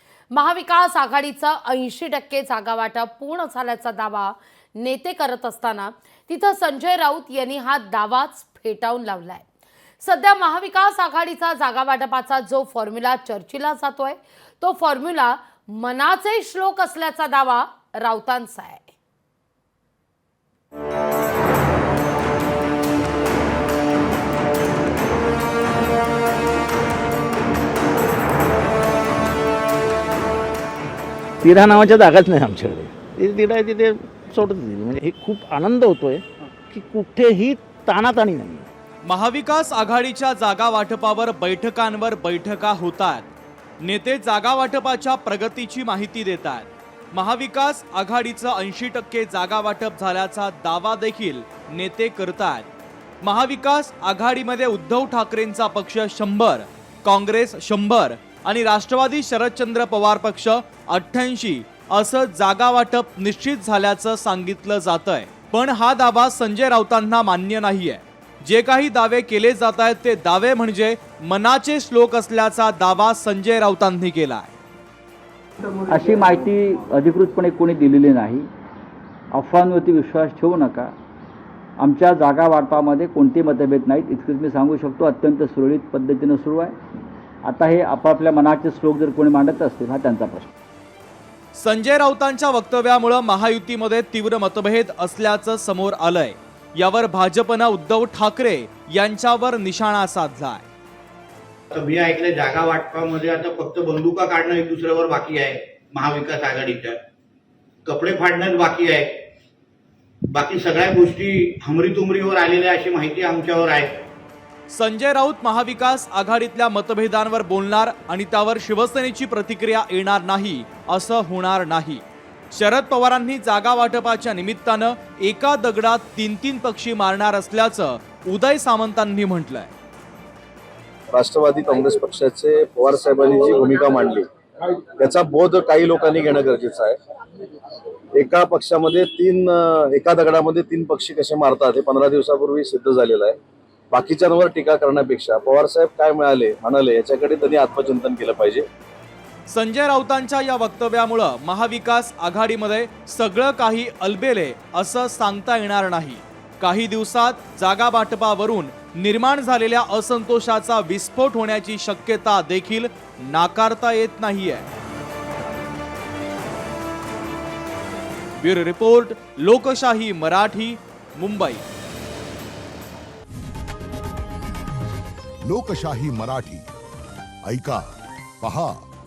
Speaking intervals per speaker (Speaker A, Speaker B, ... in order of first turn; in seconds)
Speaker A: 0.3-9.4, 10.0-18.9
Speaker B: 31.4-38.7
Speaker C: 39.0-43.3, 43.8-52.6, 53.2-74.5, 91.5-100.6, 114.7-129.7, 149.5-164.7, 168.4-171.6
Speaker D: 75.9-78.5, 79.3-80.9, 81.8-86.7, 87.4-90.5
Speaker E: 101.7-107.0, 107.8-109.2, 110.3-114.0
Speaker F: 131.1-134.2, 135.0-137.0, 138.2-143.4, 143.9-148.6
Speaker G: 175.4-176.7, 177.4-178.8